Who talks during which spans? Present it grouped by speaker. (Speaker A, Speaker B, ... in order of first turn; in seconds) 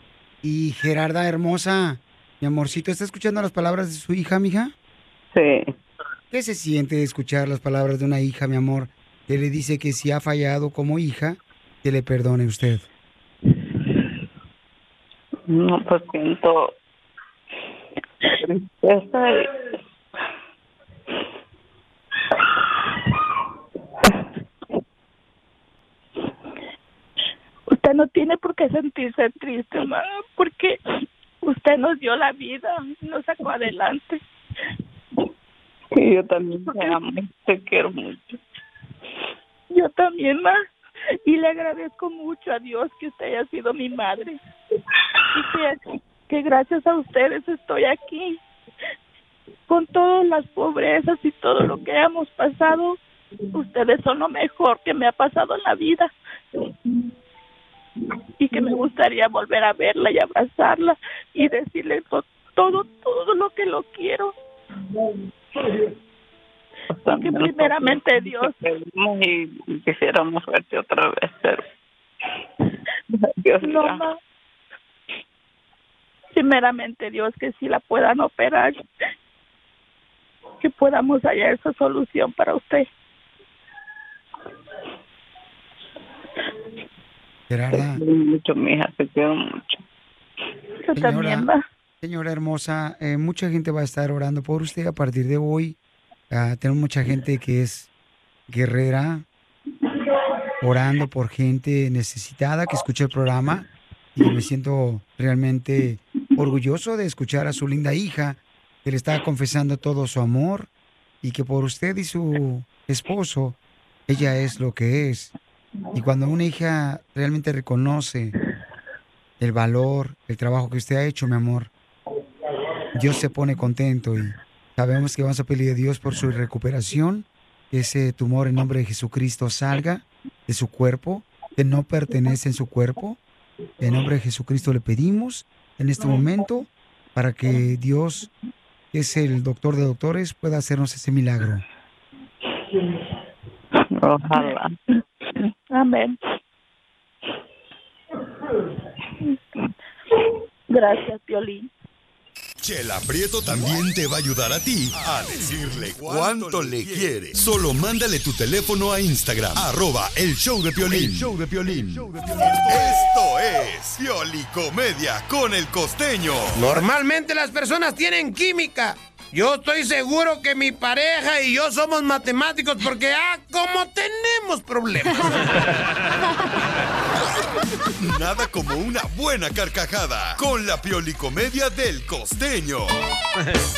Speaker A: 0.4-4.7, 6.3-12.9, 87.5-88.0, 90.9-91.5, 92.0-95.8, 96.3-97.9, 98.5-99.2, 100.6-110.7, 111.2-115.3, 115.9-118.3, 119.4-121.7, 123.0-133.2, 133.8-138.3, 138.9-141.6
Speaker B: 5.3-5.7, 15.5-16.7, 18.4-19.5, 35.9-38.4, 66.9-71.6, 73.1-74.0, 87.7-89.8, 144.0-144.7
Speaker C: 27.7-30.8, 31.4-34.2, 39.7-40.6, 41.2-44.4, 45.3-45.8, 46.3-48.4, 49.7-53.0, 53.5-56.1, 58.4-64.3, 67.2-68.5, 73.6-74.2, 76.3-78.8, 80.6-82.9, 90.9-91.6, 145.7-146.2, 150.7-151.7
Speaker D: 152.6-166.8, 178.0-182.9
Speaker E: 166.5-175.2